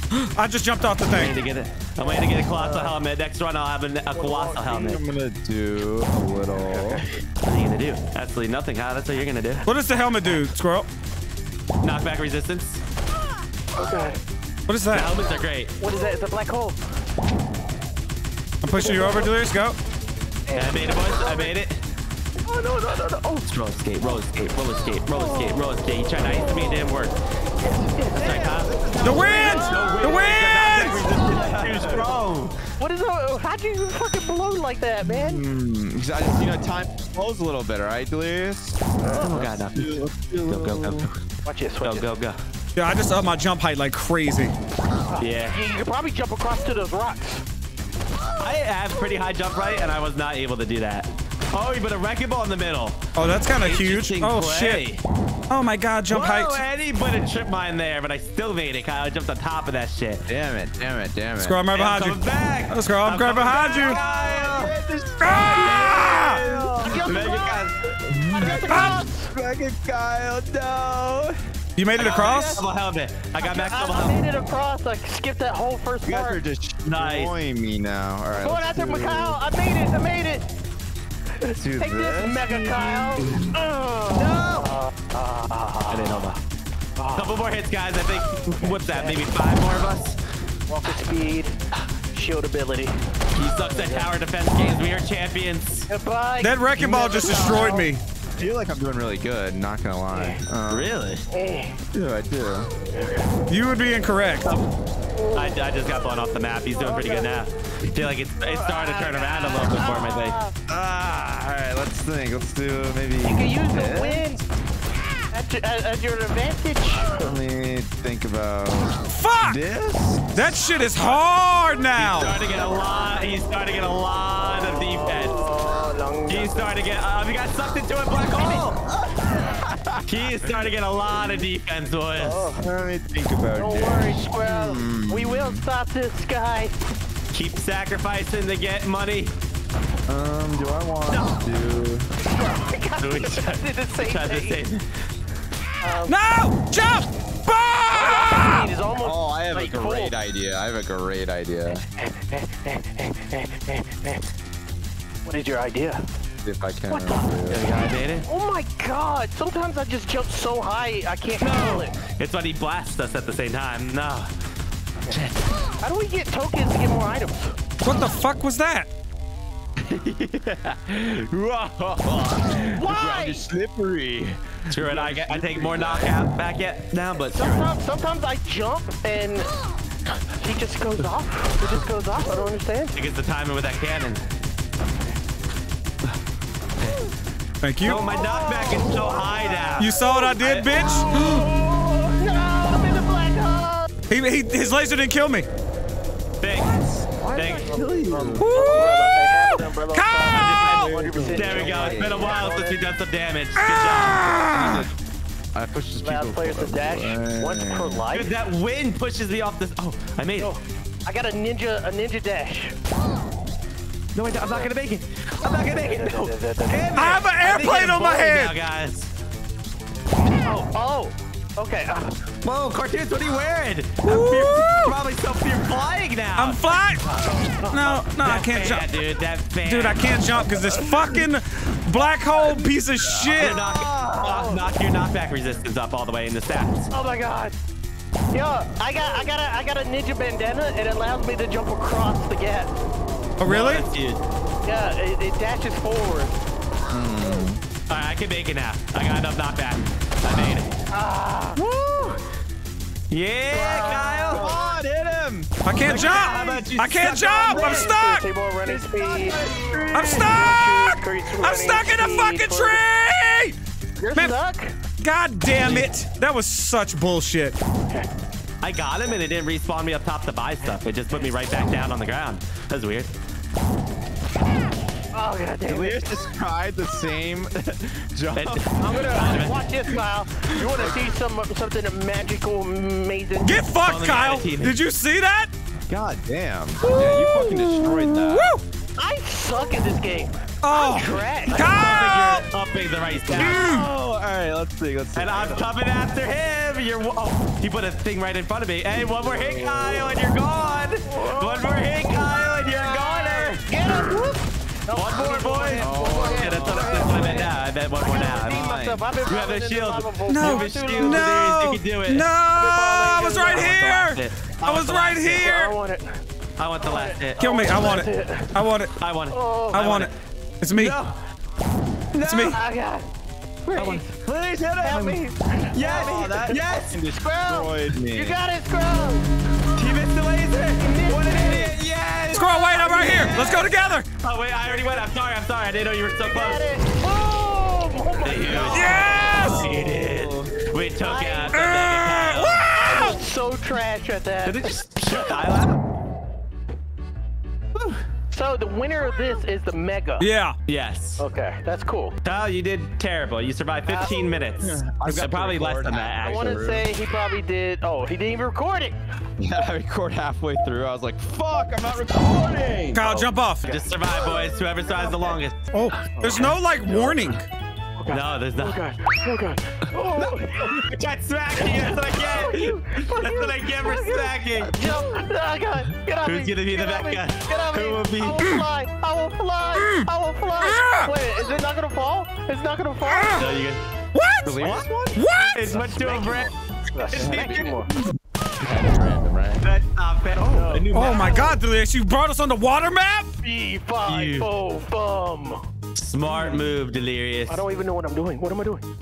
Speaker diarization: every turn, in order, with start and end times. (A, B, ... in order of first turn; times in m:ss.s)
0:00.1-0:01.3 A
0:01.0-0:05.0 B
0:02.0-0:03.0 C
0:04.1-0:04.7 C
0:04.6-0:07.0 D
0:06.6-0:07.0 C
0:07.4-0:09.7 B
0:09.6-0:10.9 A
0:11.8-0:12.8 B
0:13.7-0:14.2 C
0:14.7-0:15.1 A
0:14.9-0:15.7 B
0:15.8-0:16.8 C
0:18.6-0:19.8 A
0:18.8-0:19.3 C
0:20.5-0:21.5 C
0:20.5-0:21.8 B
0:22.4-0:23.4 C
0:23.4-0:27.2 B
0:25.1-0:25.6 C
0:26.2-0:26.9 C
0:27.6-0:28.5 C
0:28.2-0:32.6 B
0:28.2-0:32.1 D
0:29.0-0:31.0 A
0:29.2-0:30.4 C
0:31.0-0:31.6 C
0:32.8-0:35.4 C
0:35.0-0:41.1 D
0:39.0-0:39.4 C
0:39.2-0:41.2 B
0:41.4-0:42.1 C
0:41.8-0:42.4 B
0:42.8-0:44.5 A
0:45.1-0:47.4 C
0:45.2-0:45.6 B
0:48.4-0:55.0 B
0:53.2-0:54.8 A
0:55.5-0:56.6 A
0:56.1-1:00.2 B
1:00.3-1:01.6 D
1:01.4-1:02.2 A
1:01.7-1:04.7 B
1:02.7-1:04.0 A
1:03.5-1:04.7 C
1:03.6-1:07.4 D
1:05.2-1:06.4 A
1:05.9-1:07.7 B
1:06.8-1:07.7 C
1:08.0-1:11.4 D
1:08.3-1:09.3 C
1:08.4-1:08.8 B
1:08.6-1:09.0 A
1:11.8-1:12.6 A
1:12.0-1:12.6 C
1:12.0-1:14.2 B
1:13.4-1:16.4 C
1:16.0-1:19.4 D
1:16.8-1:17.3 B
1:18.4-1:20.4 C
1:21.4-1:26.4 C
1:21.5-1:23.4 D
1:24.1-1:24.7 B
1:25.9-1:26.4 B
1:27.0-1:27.4 C
1:27.1-1:30.2 B
1:28.3-1:29.3 C
1:30.7-1:31.5 C
1:32.1-1:33.0 C
1:33.4-1:35.9 B
1:33.6-1:34.1 C
1:35.9-1:37.9 C
1:36.4-1:38.0 A
1:36.8-1:37.7 D
1:38.4-1:40.9 D
1:40.1-1:40.4 C
1:40.7-1:41.2 B
1:41.3-1:41.8 C
1:41.9-1:42.7 D
1:42.9-1:43.3 C
1:43.5-1:44.5 A
1:45.1-1:45.6 C
1:45.3-1:50.4 B
1:46.7-1:47.3 C
1:48.4-1:50.5 C
1:50.7-1:54.4 D
1:53.2-1:54.4 C
1:55.3-1:57.3 C
1:57.0-2:00.6 D
1:59.1-1:59.6 A
2:00.3-2:02.4 A
2:01.9-2:05.5 B
2:02.6-2:03.3 C
2:04.4-2:06.7 C
2:06.3-2:08.8 B
2:08.5-2:10.2 D
2:10.1-2:12.5 B
2:12.2-2:12.6 C
2:12.2-2:15.6 D
2:13.5-2:16.7 C
2:17.3-2:19.3 B
2:20.1-2:22.1 D
2:21.1-2:21.4 B
2:22.2-2:24.6 C
2:23.0-2:24.8 B
2:25.8-2:26.2 C
2:26.1-2:28.7 A
2:27.9-2:30.1 C
2:29.0-2:31.8 D
2:32.0-2:34.2 C
2:35.2-2:36.0 C
2:36.4-2:37.6 D
2:36.9-2:37.3 C
2:37.5-2:38.2 B
2:38.3-2:41.9 C
2:41.4-2:44.3 B
2:45.1-2:45.5 B
2:45.8-2:47.5 C
2:47.8-2:48.9 A
2:49.8-2:51.3 B
2:51.3-2:56.2 D
2:52.7-2:53.5 C
2:54.7-2:57.7 B
2:57.1-2:59.5 C
3:00.2-3:03.0 C
3:03.0-3:04.2 B
3:07.6-3:08.0 A
3:07.8-3:11.0 B
3:07.8-3:13.9 C
3:09.8-3:11.1 A
3:14.1-3:15.5 A
3:16.4-3:18.4 B
3:16.5-3:18.8 D
3:17.3-3:22.8 C
3:18.4-3:20.7 A
3:20.3-3:24.3 B
3:20.6-3:22.4 D
3:23.6-3:24.9 A
3:24.5-3:24.9 D
3:25.5-3:28.0 D
3:26.0-3:28.3 C
3:28.1-3:30.5 B
3:30.4-3:32.7 C
3:34.1-3:39.1 B
3:35.6-3:37.1 C
3:36.9-3:38.5 A
3:40.4-3:42.2 C
3:42.4-3:46.6 B
3:44.0-3:45.0 A
3:46.4-3:47.1 A
3:47.1-3:48.0 C
3:47.7-3:48.8 A
3:47.8-3:50.6 B
3:49.6-3:53.6 A
3:52.4-3:54.4 D
3:53.3-3:56.9 B
3:53.7-3:54.6 C
3:56.9-3:57.5 C
3:58.3-4:02.8 C
4:03.4-4:03.8 A
4:03.4-4:04.2 B
4:04.6-4:06.3 C
4:06.9-4:07.6 D
4:07.9-4:10.7 B
4:10.9-4:11.6 C
4:13.1-4:14.5 B
4:13.5-4:14.6 C
4:13.8-4:17.9 D
4:15.6-4:18.3 A
4:15.8-4:17.7 B
4:17.4-4:22.8 C
4:18.6-4:20.5 D
4:19.9-4:23.6 A
4:24.0-4:24.7 C
4:25.0-4:27.6 A
4:25.6-4:25.9 B
4:28.6-4:33.1 B
4:35.1-4:36.1 C
4:35.6-4:38.7 D
4:38.3-4:39.6 B
4:38.8-4:43.7 C
4:40.6-4:41.0 D
4:43.4-4:45.5 A
4:43.8-4:44.8 B
4:45.9-4:48.5 D
4:46.8-4:48.6 A
4:49.0-4:52.0 C
4:50.6-4:52.4 A
4:51.5-4:53.6 B
4:53.3-4:55.6 D
4:53.4-4:53.9 A
4:55.2-5:04.1 B
4:59.2-5:00.2 D
5:01.0-5:11.3 C
5:04.9-5:12.3 B
5:05.7-5:07.5 D
5:08.4-5:09.0 D
5:10.3-5:15.6 A
5:12.5-5:13.8 C
5:13.5-5:15.7 B
5:15.3-5:16.2 C
5:16.6-5:17.4 B
5:16.8-5:18.6 C
5:17.4-5:18.9 A
5:19.0-5:20.1 B
5:19.3-5:19.9 C
5:19.7-5:20.1 A
5:20.6-5:21.0 A
5:20.7-5:21.2 B
5:22.1-5:22.6 B
5:22.2-5:22.6 A
5:22.4-5:23.1 C
5:23.6-5:24.1 C
5:23.7-5:26.9 B
5:24.8-5:29.3 C
5:25.8-5:28.4 D
5:29.8-5:36.7 B
5:30.8-5:31.8 C
5:32.3-5:34.1 A
5:32.7-5:33.7 C
5:36.2-5:39.5 C
5:38.2-5:42.6 B
5:38.4-5:40.5 D
5:38.7-5:39.7 A
5:41.0-5:41.6 C
5:41.5-5:43.2 A
5:42.7-5:45.4 C
5:44.4-5:45.8 B
5:47.7-5:48.0 B
5:48.3-5:50.3 C
5:50.2-5:50.6 A
5:50.7-5:51.2 B
5:51.2-5:52.1 C
5:52.2-5:56.8 B
5:53.9-5:54.1 C
5:54.6-5:56.8 D
5:56.2-5:58.9 C
5:59.4-6:03.0 D
6:02.9-6:03.6 A
6:03.0-6:04.3 C
6:03.6-6:05.7 B
6:04.9-6:05.2 D
6:05.7-6:07.4 A
6:06.2-6:07.2 C
6:08.0-6:10.9 C
6:08.1-6:08.8 B
6:10.2-6:15.1 B
6:11.6-6:23.5 C
6:16.2-6:18.6 B
6:19.8-6:20.1 A
6:20.6-6:21.2 A
6:23.0-6:23.5 A
6:23.4-6:23.8 B
6:24.1-6:25.9 A
6:24.4-6:25.2 D
6:24.6-6:24.9 B
6:25.5-6:27.7 B
6:25.8-6:27.9 C
6:27.1-6:27.8 D
6:28.5-6:29.6 D
6:29.6-6:31.5 B
6:30.4-6:31.5 C
6:30.9-6:33.3 A
6:33.4-6:35.6 C
6:34.0-6:34.5 B
6:36.0-6:37.6 B
6:36.4-6:36.6 D
6:37.5-6:38.8 C